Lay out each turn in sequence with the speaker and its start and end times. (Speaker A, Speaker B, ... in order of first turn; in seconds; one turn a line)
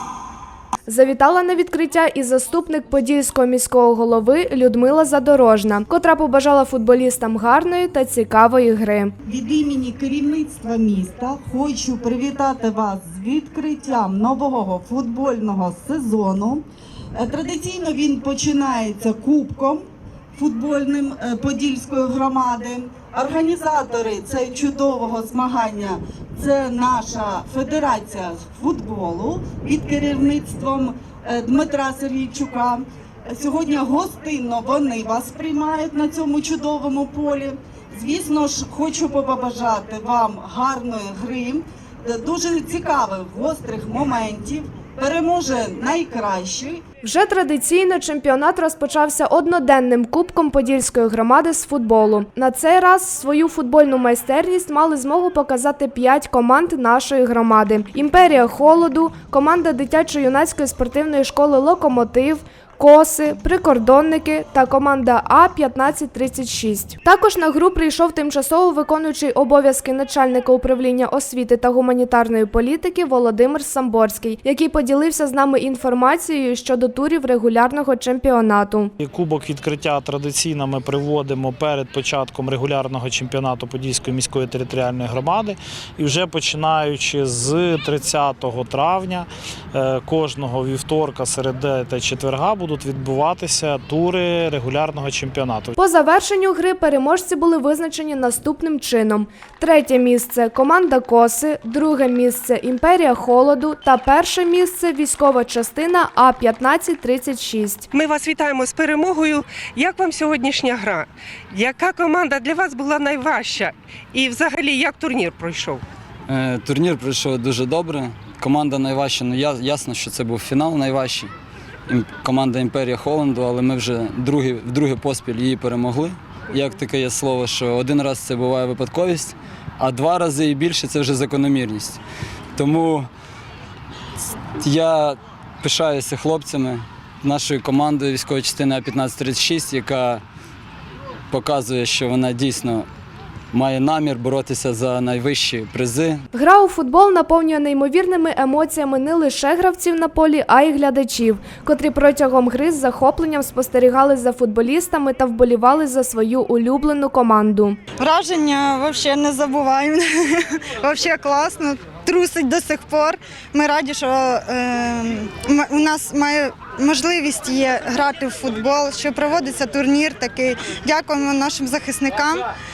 Speaker A: 0.9-9.1
Speaker B: 9.2-46.8
Speaker A: 47.0-78.9
Speaker C: 79.0-95.8
Speaker A: 95.8-107.9
Speaker D: 107.9-115.8
Speaker E: 116.3-121.3
Speaker E: 121.9-132.0
Speaker E: 132.6-133.1
Speaker E: 134.6-140.2
Speaker E: 141.3-142.9
Speaker E: 143.5-146.2
Speaker A: 146.3-157.8
Speaker F: 158.0-172.5